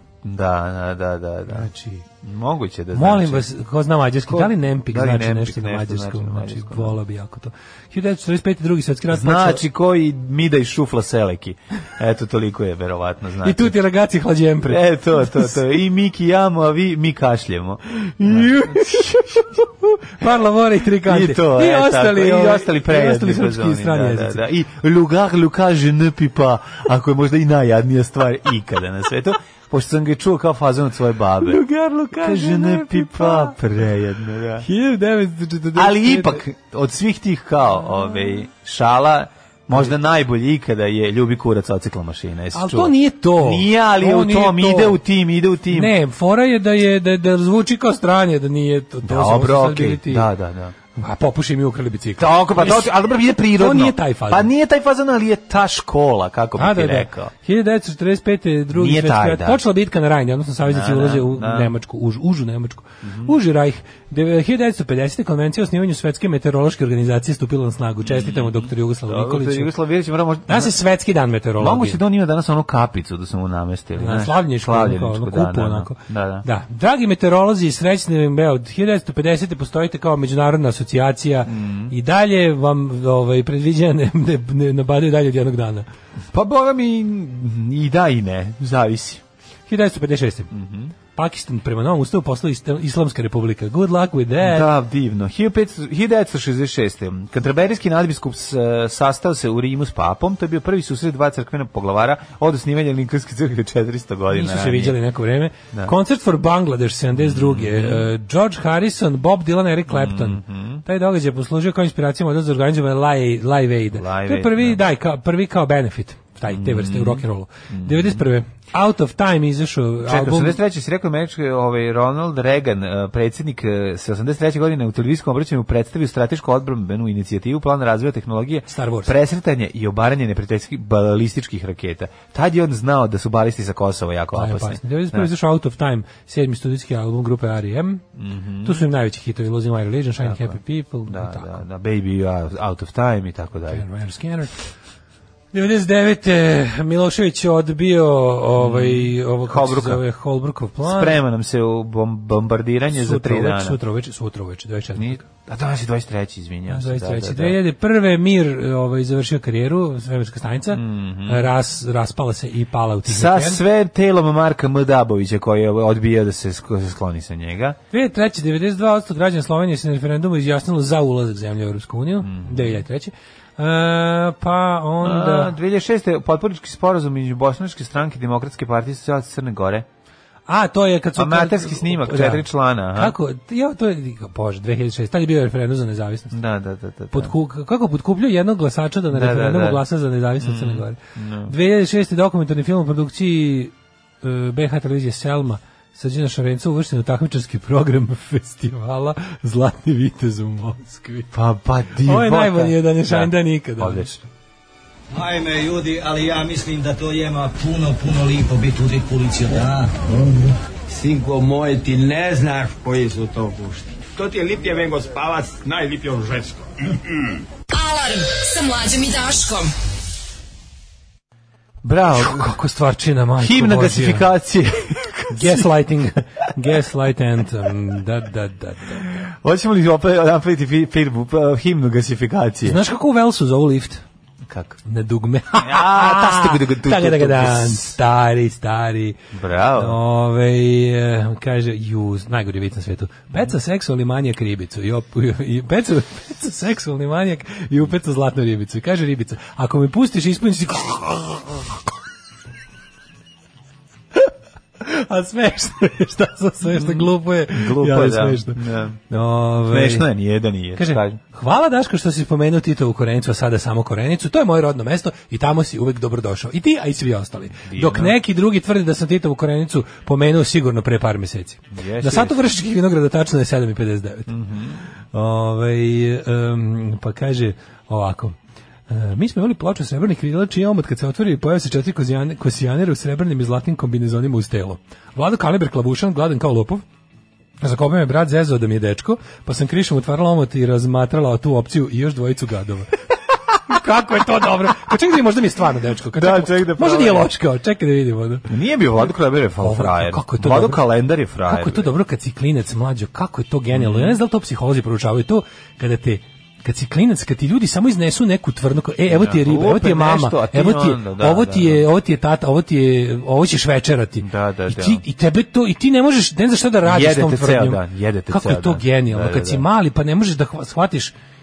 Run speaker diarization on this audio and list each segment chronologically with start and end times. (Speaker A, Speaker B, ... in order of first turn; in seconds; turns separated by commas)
Speaker A: 0.2-1.7, Speaker B: 1.5-2.1, Speaker A: 2.2-3.5, Speaker B: 2.9-9.6, Speaker A: 4.3-7.0, Speaker A: 9.1-13.7, Speaker B: 13.4-15.6, Speaker A: 14.6-19.6, Speaker B: 18.2-24.4, Speaker A: 21.0-34.7, Speaker B: 31.4-33.6, Speaker B: 34.6-36.4, Speaker A: 35.7-45.9, Speaker B: 42.5-45.0, Speaker B: 45.7-50.3, Speaker A: 49.0-50.7, Speaker B: 51.0-52.9, Speaker A: 52.2-57.3, Speaker B: 53.4-54.5, Speaker B: 56.6-69.7, Speaker A: 58.7-59.6, Speaker A: 60.7-61.7, Speaker A: 63.0-63.4, Speaker A: 68.0-70.7, Speaker B: 70.5-72.0, Speaker A: 71.6-76.5, Speaker B: 74.0-85.9, Speaker A: 81.5-81.9, Speaker A: 86.3-89.2, Speaker B: 89.7-90.5, Speaker A: 90.5-90.9, Speaker B: 91.1-94.7, Speaker A: 94.4-105.0, Speaker B: 104.3-120.6, Speaker A: 107.2-108.1, Speaker A: 109.9-110.8, Speaker A: 113.9-114.8, Speaker A: 116.5-118.2, Speaker A: 120.0-135.3, Speaker B: 128.7-129.1, Speaker B: 134.3-138.0, Speaker A: 138.1-138.8, Speaker B: 138.6-141.6, Speaker A: 140.2-143.8, Speaker B: 143.7-144.7, Speaker B: 145.5-151.2, Speaker A: 148.6-150.0, Speaker A: 150.8-153.8, Speaker B: 152.9-155.2, Speaker A: 154.9-157.6, Speaker B: 156.7-163.6, Speaker A: 160.7-161.5, Speaker A: 163.1-167.8, Speaker B: 167.9-175.5, Speaker A: 172.2-172.8, Speaker A: 175.0-179.9, Speaker B: 180.5-186.4, Speaker A: 181.2-183.2, Speaker A: 186.3-187.3, Speaker B: 187.1-201.3, Speaker A: 189.1-189.8, Speaker A: 190.4-191.5, Speaker A: 201.3-204.2, Speaker B: 202.0-204.2, Speaker C: 205.1-209.9, Speaker D: 210.1-217.4, Speaker E: 217.7-219.7, Speaker A: 221.8-222.6, Speaker B: 222.1-224.3, Speaker A: 223.4-225.8, Speaker B: 225.3-229.3, Speaker A: 229.1-232.8, Speaker B: 232.6-234.0, Speaker A: 234.4-234.8, Speaker B: 234.9-239.2, Speaker A: 235.6-238.0, Speaker A: 239.3-240.0, Speaker B: 239.8-251.8, Speaker B: 254.1-260.1, Speaker A: 256.6-259.0, Speaker A: 259.7-261.2, Speaker B: 260.8-274.3, Speaker A: 267.7-268.1, Speaker A: 271.7-272.5, Speaker A: 274.3-274.8, Speaker B: 275.1-278.4, Speaker B: 278.9-286.8, Speaker B: 287.6-293.0, Speaker B: 293.7-298.4, Speaker A: 296.1-297.3, Speaker A: 298.5-301.9, Speaker B: 299.6-300.9, Speaker B: 301.4-321.1, Speaker A: 303.7-304.2, Speaker A: 309.1-311.9, Speaker A: 314.2-315.0, Speaker A: 316.8-319.6